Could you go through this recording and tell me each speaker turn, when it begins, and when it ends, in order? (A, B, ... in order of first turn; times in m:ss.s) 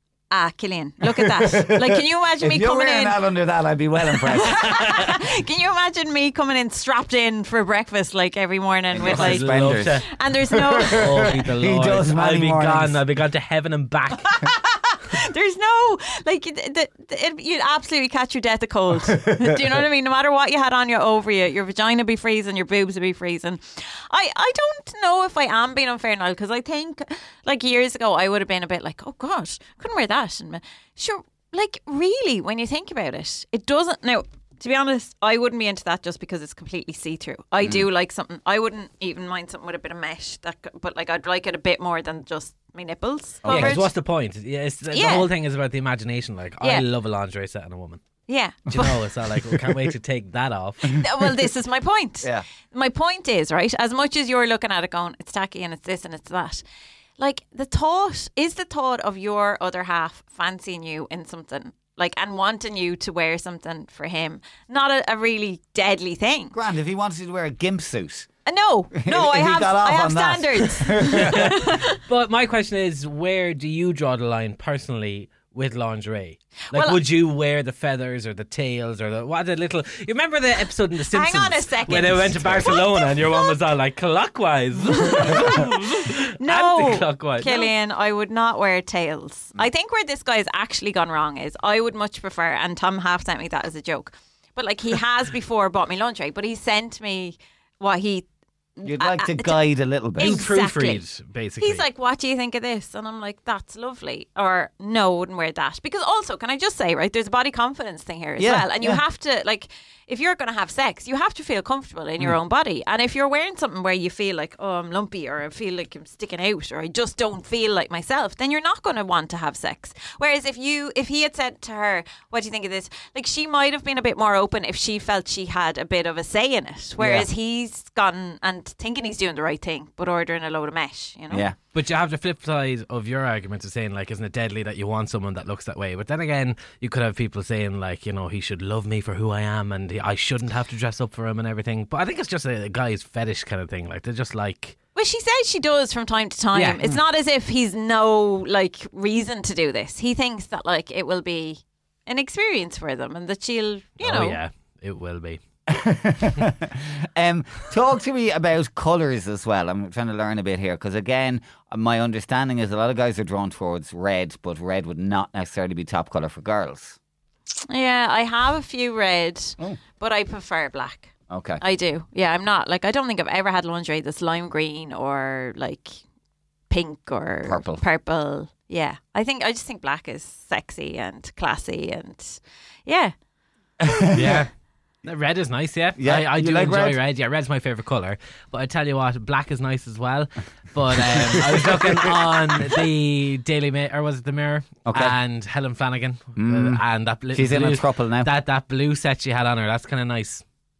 0:00.3-0:03.2 A
0:01.0-0:05.0 B
0:04.3-0:11.3 A
0:04.7-0:05.1 C
0:08.9-0:13.0 B
0:09.0-0:10.1 C
0:10.9-0:14.4 C
0:14.3-0:43.8 A
0:43.4-0:43.9 B
0:43.4-0:48.0 C
0:44.9-0:45.3 A
0:46.6-0:46.9 A
0:48.3-0:48.9 A
0:48.7-0:51.0 C
0:50.9-0:56.6 A
0:57.2-1:06.6 A
1:06.5-1:08.3 B
1:08.4-1:12.0 A
1:08.9-1:11.8 B
1:11.1-1:27.7 C
1:16.7-1:17.0 A
1:21.1-1:23.6 A
1:24.9-1:39.6 A
1:38.8-1:40.4 B
1:40.2-1:41.0 A
1:40.2-1:41.8 C
1:41.6-2:11.5 A
1:48.4-1:49.0 B
2:07.0-2:07.3 B
2:11.3-2:11.6 B
2:11.7-2:24.8 C
2:24.9-2:34.4 A
2:26.5-2:27.0 C
2:34.0-2:35.4 C
2:35.7-2:47.0 B
2:47.7-2:56.0 A
2:51.3-2:51.6 B
2:56.7-3:03.1 A
2:57.4-2:57.8 B
3:03.8-3:04.4 B
3:04.1-3:04.5 C
3:05.0-3:20.4 C
3:06.0-3:07.0 B
3:11.1-3:12.1 B
3:14.9-3:15.1 B
3:16.4-3:18.3 B